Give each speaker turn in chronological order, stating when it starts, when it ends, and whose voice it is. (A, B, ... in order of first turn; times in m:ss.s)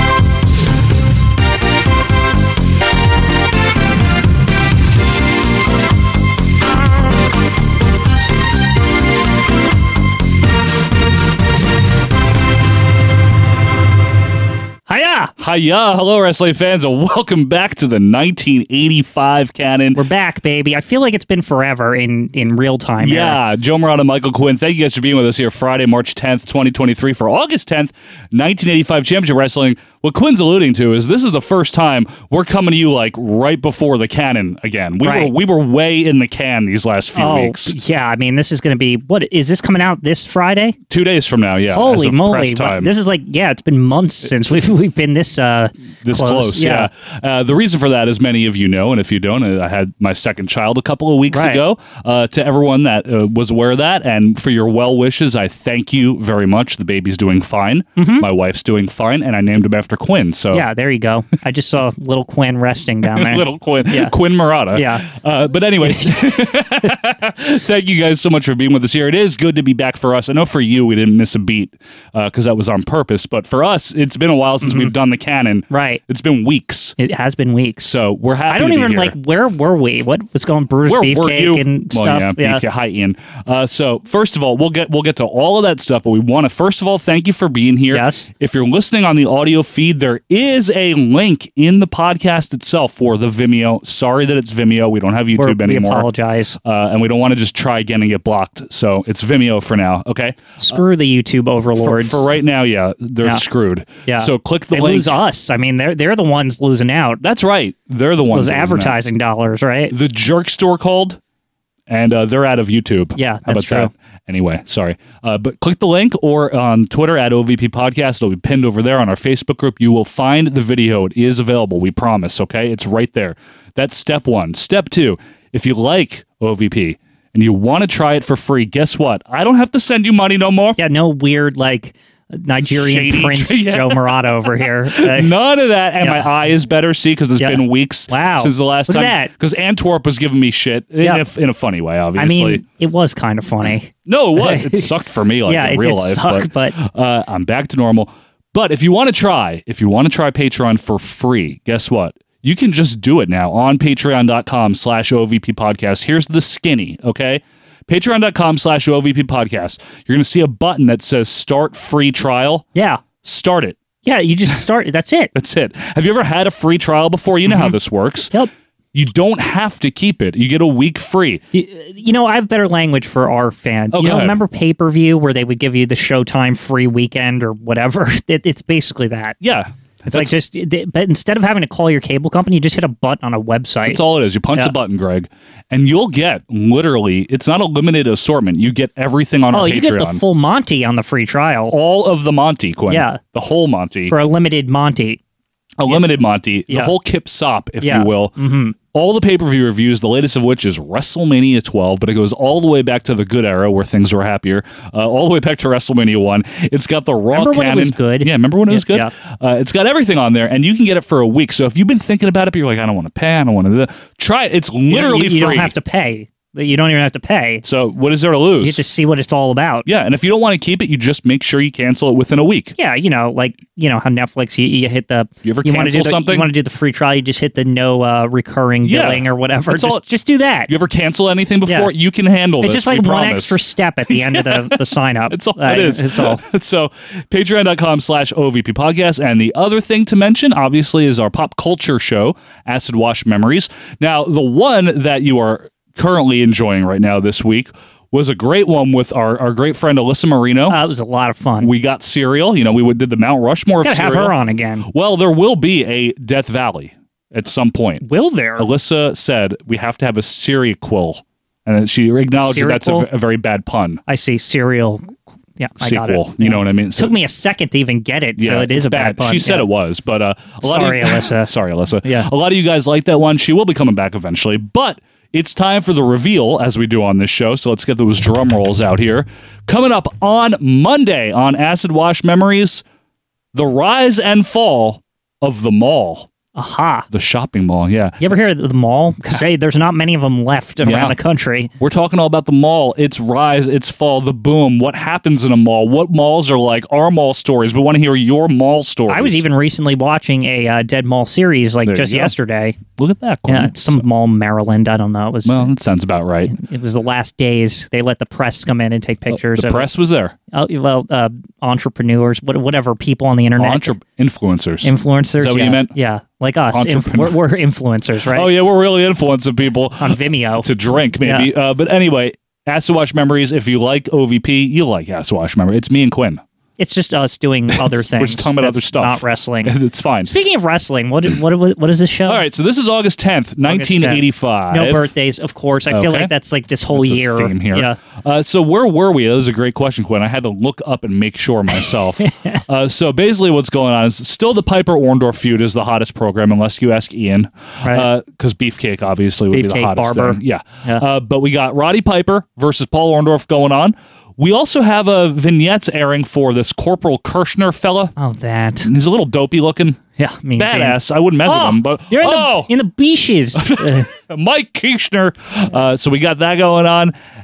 0:14.9-0:15.3 A
0:15.4-0:20.0 B
0:20.0-0:23.4 A
0:23.0-0:37.8 B
0:35.0-0:35.3 A
0:37.2-0:40.8 A
0:40.9-0:42.9 B
0:41.7-0:46.9 A
0:46.0-1:00.7 B
0:51.3-0:51.6 A
0:58.0-0:58.3 A
1:00.5-1:04.1 A
1:03.1-1:17.0 B
1:04.7-1:05.1 A
1:05.8-1:06.1 A
1:14.6-1:14.9 A
1:15.7-1:16.0 A
1:17.0-1:22.6 A
1:17.8-1:19.2 B
1:20.9-1:36.1 B
1:27.9-1:28.3 A
1:35.4-1:36.6 A
1:36.6-1:40.8 B
1:40.6-1:42.2 A
1:41.8-1:45.2 B
1:44.1-1:47.2 A
1:47.2-1:49.0 B
1:48.3-1:49.9 A
1:49.9-1:51.2 B
1:51.9-2:10.8 B
1:53.2-1:53.9 A
2:10.8-2:15.3 A
2:12.6-2:14.0 B
2:15.0-2:22.6 B
2:16.0-2:16.5 A
2:17.4-2:19.3 A
2:22.2-2:24.9 A
2:24.1-2:42.7 B
2:25.5-2:26.8 A
2:42.8-2:43.0 A
2:43.2-2:43.8 B
2:44.0-2:45.3 A
2:45.3-2:48.3 B
2:47.5-2:47.8 A
2:48.9-2:51.4 B
2:51.5-2:59.4 A
2:53.9-2:54.4 B
2:59.4-3:00.3 B
3:00.1-3:04.0 A
3:03.8-3:10.2 B
3:09.5-3:11.8 A
3:11.7-3:14.2 B
3:12.9-3:13.2 A
3:14.1-3:15.2 A
3:15.8-3:18.3 B
3:17.8-3:18.8 A
3:18.9-3:35.7 B
3:27.3-3:29.1 A
3:34.9-3:37.6 A
3:37.6-3:38.8 B
3:38.6-3:39.9 A
3:39.9-3:42.7 B
3:42.8-3:50.7 A
3:45.4-3:46.5 B
3:48.8-3:50.0 B
3:50.7-3:53.6 B
3:51.7-3:51.9 A
3:52.6-3:56.4 A
3:54.1-3:54.8 B
3:55.3-4:10.8 B
4:10.7-4:11.7 A
4:11.6-4:14.4 B
4:13.8-4:14.9 A
4:14.9-4:18.0 B
4:18.0-4:18.7 A
4:18.6-4:24.0 B
4:22.4-4:23.1 A
4:24.1-4:29.7 A
4:25.8-4:27.2 B
4:28.4-4:42.8 B
4:30.6-4:31.5 A
4:43.5-4:46.3 B
4:46.6-4:47.1 A
4:47.1-4:48.2 B
4:48.2-4:51.7 A
4:50.8-4:51.2 B
4:51.8-4:59.4 B
4:59.1-5:02.8 A
5:01.9-5:02.3 B
5:03.0-5:04.0 B
5:03.5-5:05.7 A
5:05.4-5:06.5 B
5:06.5-5:09.9 A
5:09.3-5:10.4 B
5:10.5-5:13.9 A
5:13.6-5:15.9 B
5:14.8-5:18.5 A
5:16.7-5:17.4 B
5:18.3-5:26.4 B
5:20.0-5:20.7 A
5:21.2-5:21.5 A
5:26.8-5:29.7 A
5:28.1-5:30.3 B
5:30.2-5:32.4 A
5:32.3-5:35.1 B
5:33.7-5:38.0 A
5:35.9-5:36.3 B
5:36.9-5:58.1 B
5:41.8-5:42.6 A
5:49.5-5:51.0 A
5:58.2-5:58.9 A
5:58.9-6:00.0 B
6:00.2-6:04.1 A
6:00.6-6:02.7 B
6:03.6-6:07.1 B